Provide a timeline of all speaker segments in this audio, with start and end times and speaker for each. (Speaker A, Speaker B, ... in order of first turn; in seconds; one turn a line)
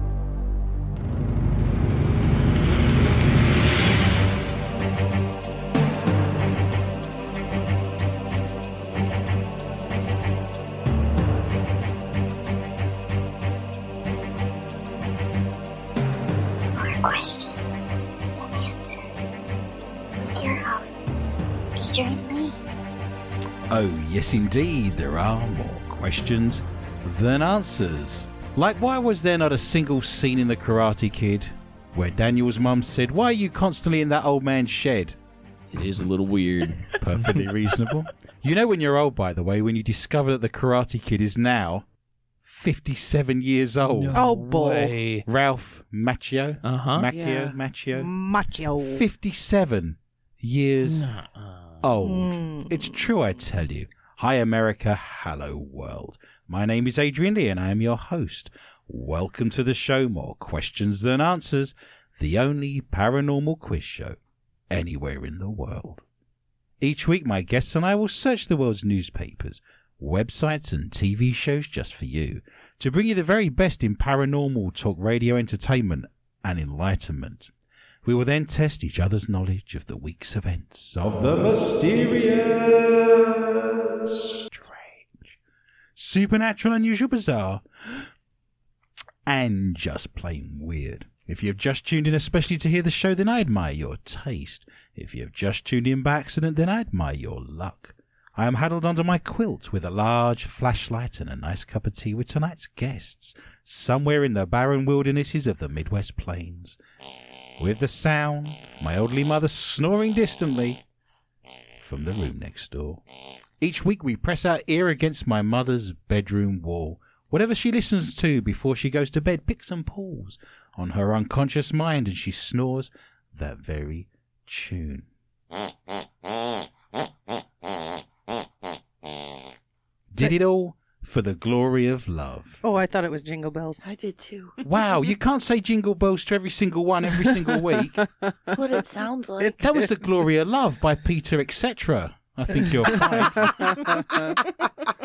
Speaker A: 16.8-17.8
Speaker A: 18.4-19.4
Speaker A: 20.3-21.1
Speaker A: 21.8-22.6
Speaker B: 23.7-35.2
Speaker C: 35.7-37.5
Speaker B: 37.0-41.9
Speaker B: 42.4-44.2
Speaker C: 43.9-45.2
Speaker D: 44.1-45.0
Speaker B: 45.2-48.1
Speaker C: 46.6-47.1
Speaker E: 47.1-47.6
Speaker D: 47.9-49.0
Speaker B: 48.8-51.1
Speaker C: 50.8-51.8
Speaker B: 51.8-64.2
Speaker D: 52.0-53.0
Speaker B: 64.7-66.0
Speaker B: 66.8-77.5
Speaker B: 78.0-85.4
Speaker B: 86.0-88.1
Speaker B: 89.3-106.8
Speaker B: 107.6-110.8
Speaker B: 111.8-113.0
Speaker B: 113.6-125.1
Speaker B: 130.1-132.6
Speaker D: 132.6-133.8
Speaker E: 133.8-134.6
Speaker B: 134.6-138.0
Speaker D: 137.2-138.6
Speaker E: 138.5-139.6
Speaker D: 139.4-139.9
Speaker B: 139.6-144.2
Speaker D: 142.7-144.3